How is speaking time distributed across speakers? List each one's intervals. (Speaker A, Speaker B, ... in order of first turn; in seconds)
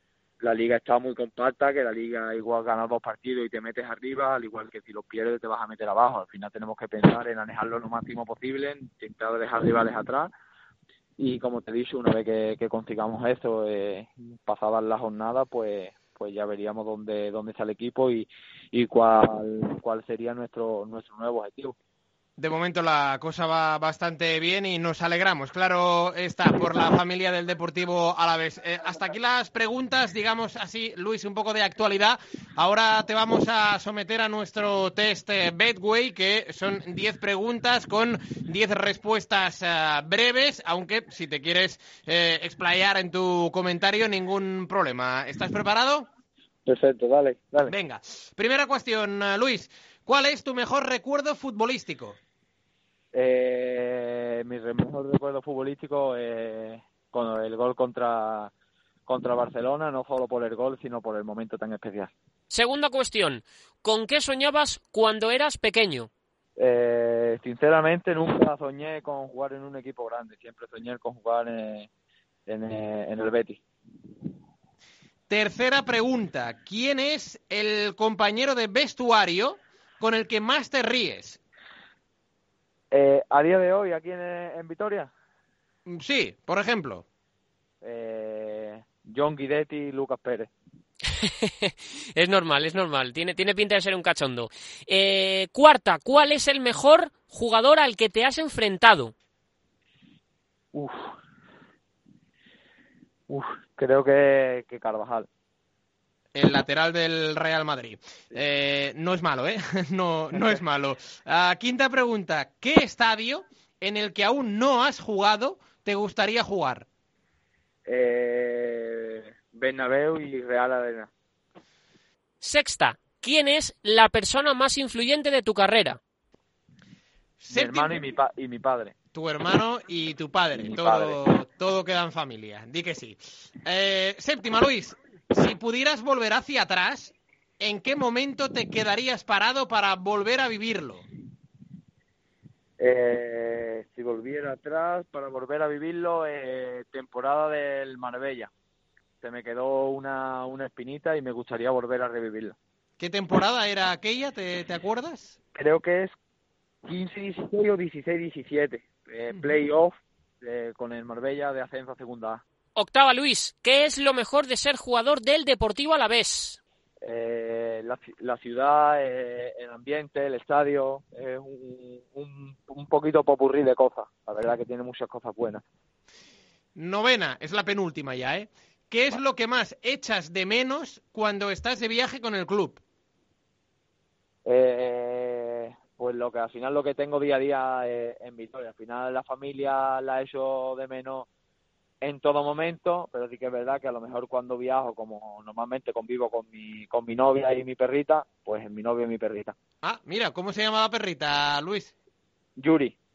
Speaker A: 0.4-10.3, 11.2-21.8, 46.6-47.7, 53.1-58.5, 59.1-62.1, 66.6-71.9, 72.5-73.6, 82.9-85.1, 87.8-90.5, 100.7-101.1, 103.3-105.3, 110.3-110.6, 117.8-121.1, 127.5-128.9, 130.5-131.2, 142.8-148.5, 149.2-152.6, 155.5-156.1, 156.8-162.4, 167.0-175.6, 184.4-191.3, 192.0-199.5, 202.6-202.9
Speaker B: 22.4-46.1, 47.7-52.2, 75.3-81.4, 85.8-87.0, 106.3-116.8, 127.4-128.1, 129.1-141.0, 153.0-155.3, 176.8-182.8, 199.8-201.9
Speaker C: 62.5-66.1, 91.2-99.1, 122.4-126.0, 162.8-166.6